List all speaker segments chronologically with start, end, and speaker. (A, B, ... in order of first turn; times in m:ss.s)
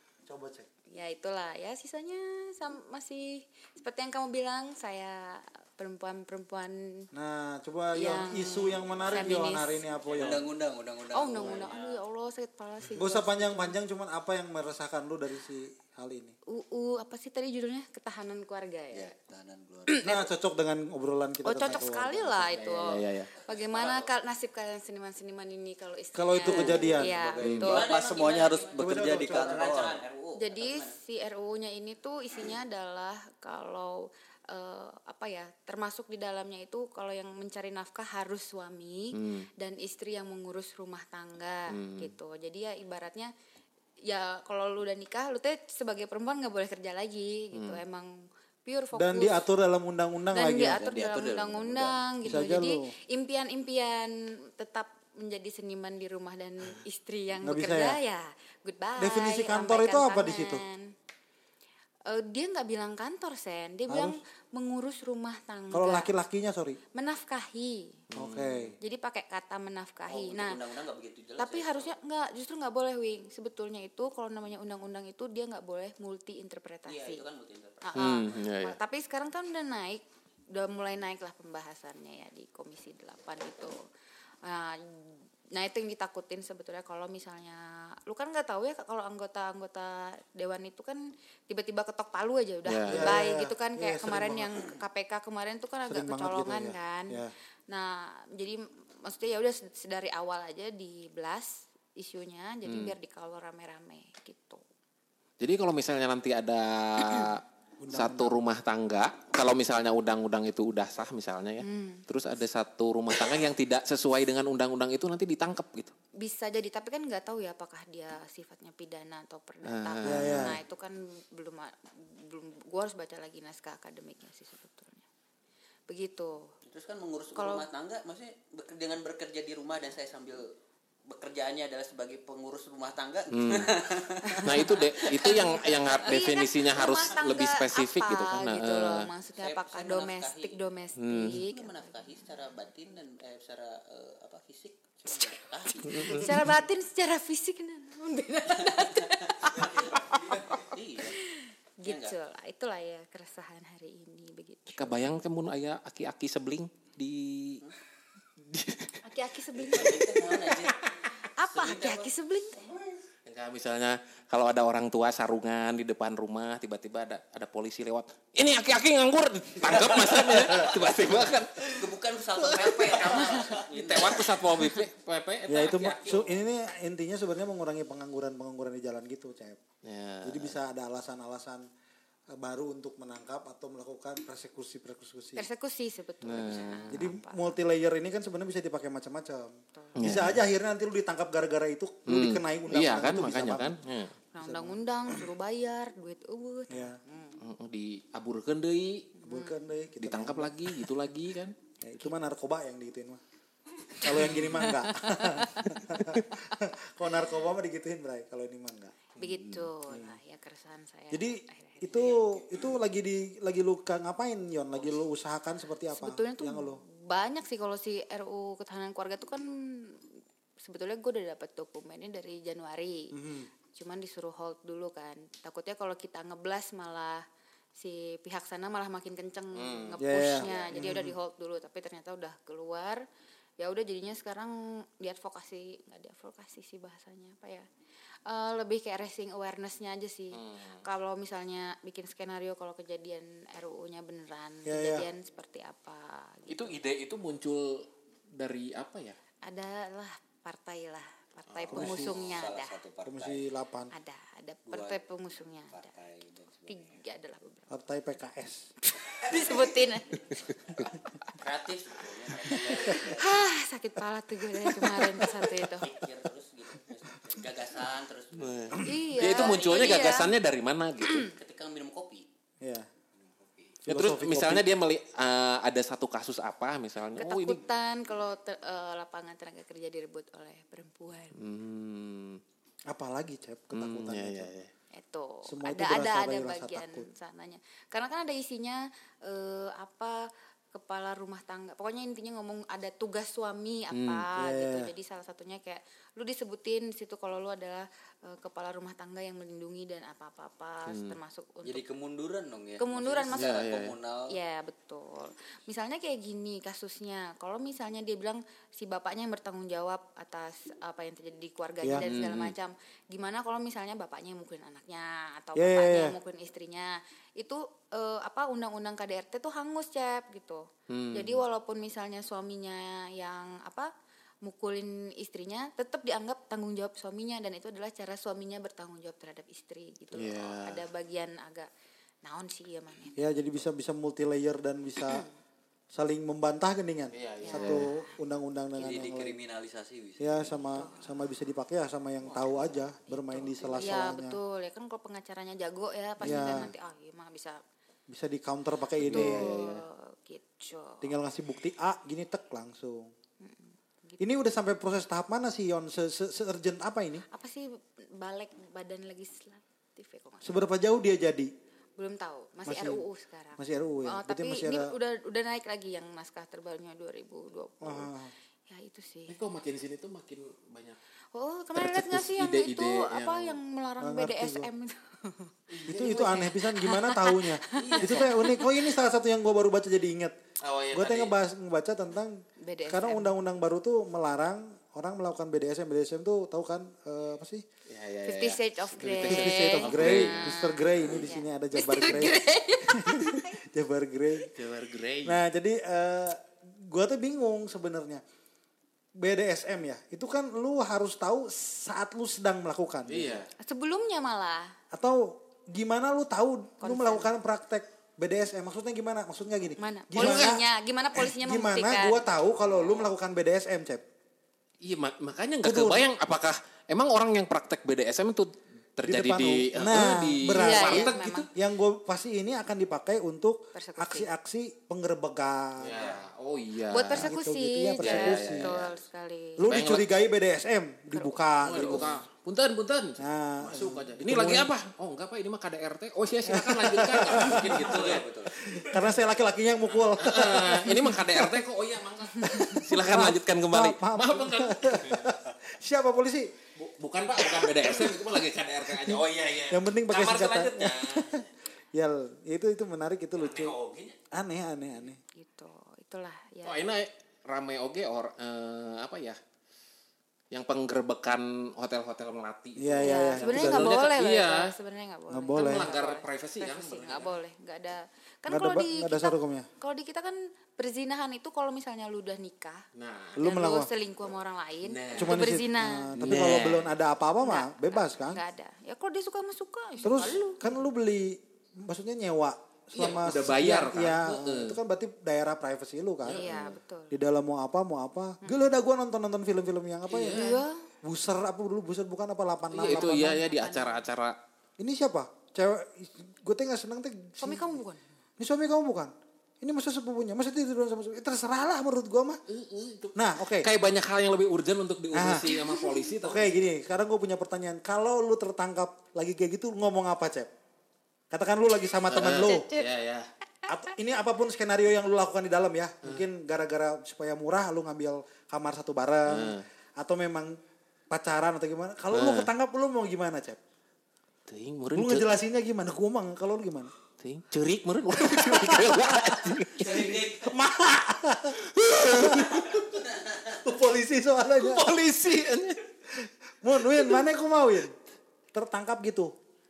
0:00.3-0:00.7 A
0:00.9-0:07.1 B
0:07.1-0:10.5 A
0:08.0-0:09.8 B
0:10.0-0:10.4 C
0:10.1-0:11.8 D
0:11.1-0:13.8 B
0:11.4-0:12.0 C
0:13.0-0:16.4 A
0:16.5-0:19.1 B
0:18.9-0:20.1 D
0:19.9-0:20.2 B
0:20.0-0:22.3 A
0:21.4-0:28.2 B
0:22.4-0:23.3 E
0:23.5-0:24.1 C
0:26.2-0:27.2 A
0:26.5-0:30.0 D
0:27.4-0:27.8 E
0:27.6-0:31.0 C
0:28.7-0:29.9 A
0:30.4-0:43.3 B
0:39.2-0:39.5 E
0:41.7-0:42.1 E
0:44.0-0:49.5 B
0:47.5-0:47.8 E
0:49.0-0:50.8 A
0:50.3-1:00.9 B
0:50.7-0:52.0 D
0:52.2-0:52.9 A
0:57.4-0:58.0 A
0:59.0-1:00.6 A
1:02.1-1:06.1 B
1:03.9-1:04.2 A
1:05.7-1:06.8 A
1:06.9-1:08.0 B
1:08.1-1:08.8 E
1:08.1-1:08.8 A
1:08.8-1:10.7 B
1:10.1-1:11.9 C
1:11.4-1:17.3 B
1:16.9-1:18.0 C
1:17.8-1:23.8 B
1:18.0-1:18.8 E
1:24.4-1:44.6 B
1:32.6-1:33.2 E
1:32.9-1:34.6 A
1:35.9-1:37.3 A
1:42.7-1:42.9 E
1:45.4-1:55.9 E
1:47.8-1:48.4 A
1:51.6-1:52.0 B
1:56.2-2:05.0 B
1:59.7-2:00.6 E
2:00.0-2:00.6 A
2:05.9-2:06.6 B
2:06.7-2:10.5 C
2:07.4-2:07.7 B
2:11.1-2:16.2 C
2:13.3-2:13.8 E
2:14.2-2:21.9 B
2:14.4-2:19.1 E
2:19.4-2:20.6 C
2:21.0-2:21.4 E
2:21.4-2:26.5 C
2:25.1-2:35.1 B
2:25.9-2:26.3 E
2:28.6-2:31.2 C
2:29.9-2:30.7 D
2:31.8-2:32.2 C
2:34.8-2:37.6 E
2:38.4-2:39.0 E
2:39.0-2:40.5 B
2:39.6-2:42.1 C
2:40.4-2:40.7 E
2:41.2-2:42.7 B
2:43.2-2:51.9 E
2:51.7-2:54.6 C
2:52.4-2:55.9 E
2:55.5-2:59.6 A
2:55.5-2:56.4 C
2:59.8-3:00.5 E
3:00.2-3:01.7 A
3:02.3-3:05.5 A
3:05.4-3:07.6 B
3:06.2-3:07.0 E
3:06.9-3:13.8 A
3:09.7-3:10.0 B
3:10.0-3:10.4 E
3:12.1-3:14.1 E
3:14.3-3:17.4 B
3:14.4-3:15.2 A
3:16.7-3:17.0 A
3:17.4-3:19.1 E
3:19.2-3:19.7 B
3:19.2-3:20.9 A
3:20.0-3:21.6 E
3:21.8-3:23.2 A
3:24.0-3:28.9 A
3:24.0-3:26.2 B
3:29.2-3:32.2 B
3:29.2-3:29.7 E
3:29.9-3:30.2 A
3:31.1-3:36.8 A
3:35.9-3:40.1 B
3:40.6-3:43.1 B
3:43.1-3:43.5 A
3:43.7-3:47.2 B
3:47.8-3:53.0 B
3:49.6-3:50.0 E
3:50.0-3:51.1 A
3:50.5-3:50.8 D
3:53.6-3:57.7 B
3:58.3-4:06.8 B
4:00.4-4:00.8 E
4:04.6-4:05.1 A
4:06.5-4:09.2 E
4:09.4-4:12.8 B
4:11.5-4:11.9 E
4:11.7-4:12.1 A
4:11.8-4:13.4 D
4:13.0-4:13.9 A
4:13.9-4:15.9 B
4:14.7-4:15.0 D
4:15.7-4:17.0 D
4:16.7-4:17.8 B
4:17.7-4:18.7 A
4:18.8-4:20.5 B
4:21.3-4:23.2 C
4:22.5-4:25.9 B
4:24.8-4:25.1 A
4:25.8-4:30.2 C
4:28.4-4:31.3 E
4:28.8-4:30.3 B
4:31.2-4:32.3 C
4:32.6-4:32.9 A
4:33.4-4:33.7 C
4:33.8-4:34.7 A
4:33.9-4:37.6 E
4:37.2-4:41.4 B
4:41.4-4:42.4 E
4:42.9-4:44.5 A
4:43.7-4:44.7 E
4:44.9-5:01.8 B
4:45.5-4:47.1 A
4:53.9-4:54.2 E
4:54.4-4:54.9 A
5:00.9-5:01.2 E
5:01.6-5:04.3 D
5:02.8-5:03.6 B
5:03.3-5:03.9 E
5:04.3-5:23.9 B
5:12.0-5:12.6 E
5:15.6-5:16.2 A
5:20.9-5:21.4 E
5:24.4-5:31.7 B
5:30.2-5:30.8 E
5:32.2-5:33.2 B
5:33.2-5:35.2 A
5:35.9-5:39.4 A
5:37.1-5:37.9 E
5:37.4-5:38.2 B
5:38.8-5:40.7 D
5:40.2-5:44.4 A
5:40.8-5:41.1 B
5:42.3-5:42.6 E
5:43.1-5:47.6 B
5:46.2-5:46.7 A
5:46.2-5:46.7 E
5:48.1-5:49.6 A
5:49.0-5:49.8 E
5:49.1-5:51.1 B
5:51.0-5:53.1 A
5:53.4-5:54.3 B
5:54.2-5:57.2 A
5:57.3-6:00.7 B
6:00.4-6:01.5 A
6:02.0-6:08.1 B
6:02.6-6:03.0 A
6:03.6-6:04.9 A
6:07.8-6:08.3 A
6:08.7-6:09.4 B
6:09.3-6:11.0 E
6:11.3-6:18.7 B
6:11.8-6:13.6 E
6:14.0-6:14.7 A
6:15.7-6:16.4 E
6:15.9-6:20.4 A
6:17.8-6:18.4 E
6:20.6-6:21.4 E
6:20.9-6:27.6 A
6:22.6-6:23.4 B
6:27.9-6:30.6 E
6:28.2-6:33.6 B
6:29.1-6:34.5 A
6:34.5-6:35.4 E
6:35.2-6:38.2 A
6:39.2-6:43.4 A
6:43.1-6:43.5 E
6:43.6-6:44.8 B
6:44.9-6:54.0 A
6:46.8-6:47.3 B
6:49.8-6:52.2 B
6:50.2-6:50.6 E
6:54.8-7:01.5 E
6:55.6-6:56.1 A
6:59.0-7:06.0 A
7:00.5-7:01.5 B
7:03.7-7:04.3 B
7:05.8-7:07.3 E
7:06.9-7:09.7 B
7:07.2-7:08.7 A
7:08.0-7:09.0 E
7:09.6-7:12.2 A
7:09.7-7:10.1 E
7:11.1-7:12.0 B
7:11.6-7:18.8 E
7:13.2-7:14.7 A
7:16.5-7:21.7 A
7:17.4-7:18.6 D
7:20.1-7:25.4 E
7:22.4-7:26.5 A
7:22.5-7:22.8 B
7:26.8-7:31.5 E
7:27.6-7:28.2 A
7:28.9-7:33.8 A
7:33.4-7:34.2 E
7:34.3-7:35.2 A
7:35.4-7:36.8 B
7:36.6-7:39.4 E
7:40.5-7:44.7 E
7:42.8-7:44.0 A
7:43.0-7:52.8 B
7:45.3-7:46.0 A
7:45.6-7:47.4 E
7:48.5-7:49.7 A
7:53.0-7:53.5 E
7:53.4-7:53.9 A
7:53.4-7:56.1 B
7:54.8-7:55.4 E
7:55.2-7:58.4 A
7:56.2-7:56.9 E
7:57.4-8:00.7 B
8:00.0-8:06.5 A
8:02.9-8:04.8 E
8:06.3-8:06.8 E
8:06.3-8:07.1 B
8:07.1-8:13.4 A
8:10.1-8:10.6 E
8:10.3-8:10.9 B
8:12.7-8:14.0 B
8:12.7-8:14.4 E
8:14.8-8:17.6 A
8:17.4-8:18.0 B
8:18.4-8:22.4 A
8:22.5-8:26.5 E
8:23.2-8:23.7 A
8:25.1-8:25.5 A
8:25.5-8:26.1 B
8:26.2-8:30.5 A
8:31.3-8:32.7 A
8:32.1-8:33.3 E
8:32.4-8:32.9 B
8:33.7-8:40.6 A
8:39.3-8:39.6 E
8:41.1-8:43.6 A
8:42.1-8:42.5 E
8:44.5-8:45.3 E
8:44.9-8:46.9 A
8:47.2-8:50.2 E
8:48.2-8:52.6 A
8:49.8-8:50.6 C
8:51.7-8:52.9 E
8:53.6-8:55.0 A
8:54.5-8:55.8 E
8:56.6-8:58.0 A
8:58.5-8:59.3 A